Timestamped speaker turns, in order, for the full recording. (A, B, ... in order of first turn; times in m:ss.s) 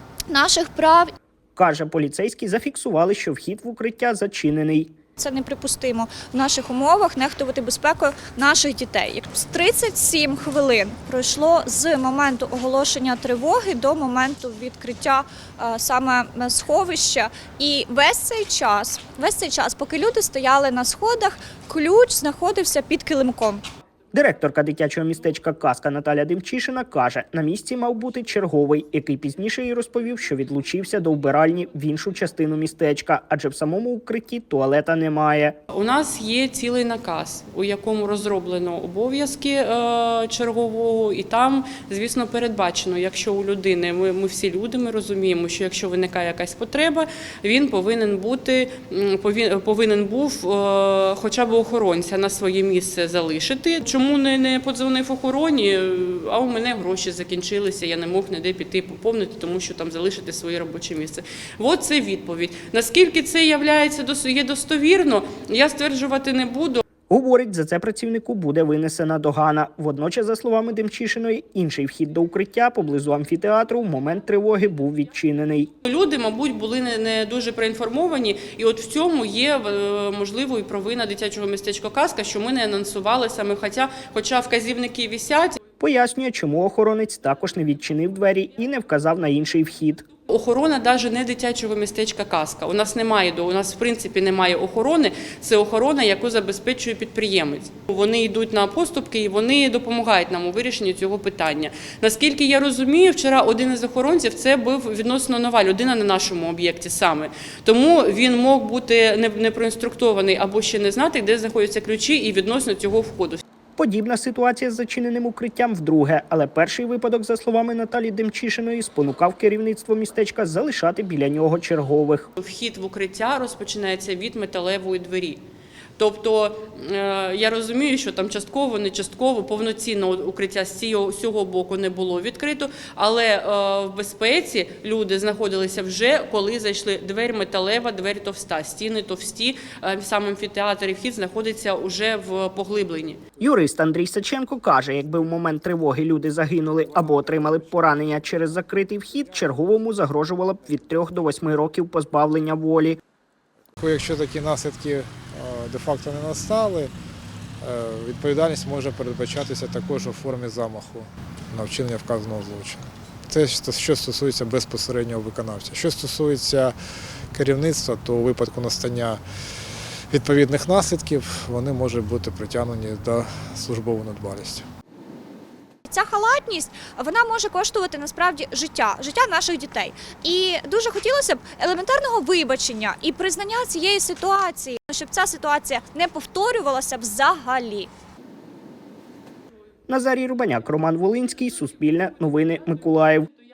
0:00.3-0:01.1 A
0:01.6-0:04.9 B
0:05.2-0:23.6 A
0:24.1-0:35.6 B
0:35.7-1:06.8 C
1:07.1-1:15.7 B
1:15.8-1:25.6 C
1:25.8-1:30.1 B
1:30.3-1:53.4 C
1:53.8-2:02.3 B
2:02.4-2:05.4 C
2:06.0-2:23.2 C
2:23.4-2:33.0 B
2:33.8-2:36.9 D
2:37.6-2:46.8 D
2:47.3-2:49.2 D
2:50.1-2:54.6 D
2:55.9-3:07.9 A
3:09.9-3:13.3 B